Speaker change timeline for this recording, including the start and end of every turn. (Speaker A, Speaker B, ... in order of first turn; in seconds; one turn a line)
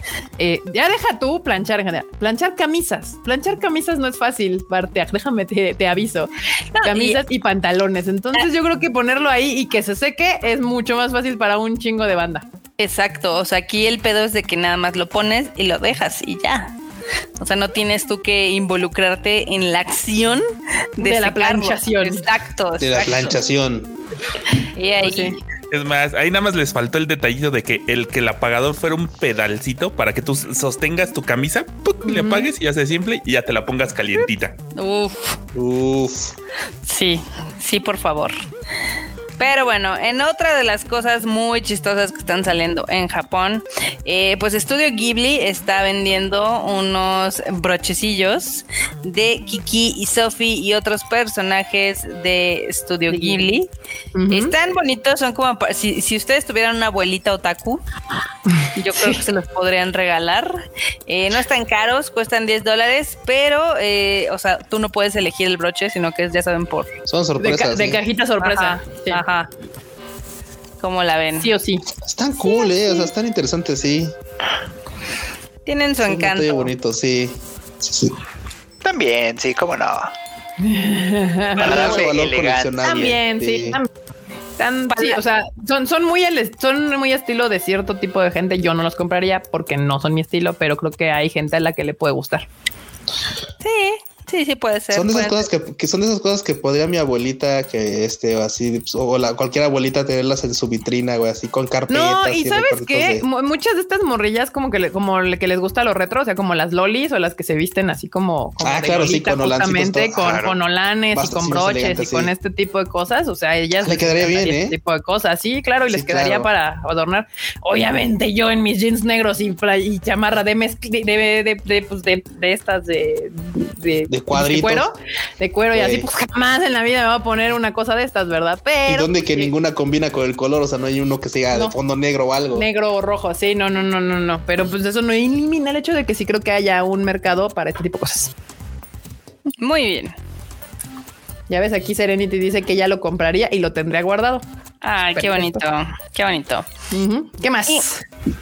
Speaker A: 0.4-6.3
Speaker B: 6.8-7.2
Speaker A: 6.8-12.4
Speaker B: 12.8-16.7
Speaker B: 17.4-20.4
Speaker B: 21.0-23.4
Speaker A: 21.0-22.2
Speaker C: 22.8-23.9
Speaker B: 24.8-25.4
Speaker A: 25.0-25.4
Speaker D: 25.7-34.6
Speaker A: 32.0-32.5
Speaker B: 34.8-35.4
Speaker C: 35.5-36.3
Speaker B: 36.9-38.3
Speaker B: 39.4-53.7
Speaker A: 53.1-53.5
Speaker A: 54.1-54.5
Speaker B: 54.3-57.8
Speaker A: 58.5-59.2
Speaker B: 58.7-66.9
Speaker C: 67.1-68.0
Speaker A: 67.4-69.2
Speaker B: 68.4-69.5
Speaker B: 70.8-71.5
Speaker A: 71.4-71.8
Speaker C: 72.0-74.1
Speaker A: 72.4-73.1
Speaker B: 75.7-76.7
Speaker C: 76.0-78.1
Speaker E: 78.8-80.1
Speaker A: 80.6-82.0
Speaker C: 81.5-83.8
Speaker E: 81.5-82.8
Speaker A: 82.8-83.9
Speaker A: 84.6-92.5
Speaker B: 84.9-85.2
Speaker B: 93.6-95.5
Speaker C: 94.9-103.2
Speaker A: 101.9-129.5
Speaker C: 108.6-110.4
Speaker E: 110.2-110.5
Speaker C: 111.1-112.3
Speaker C: 113.8-114.8
Speaker C: 115.9-116.5
Speaker C: 124.1-124.9
Speaker C: 125.7-126.1
Speaker C: 128.8-132.7
Speaker A: 132.5-138.3
Speaker B: 139.6-140.1
Speaker A: 141.5-144.4
Speaker B: 144.8-146.7
Speaker A: 145.1-145.6
Speaker A: 146.9-148.0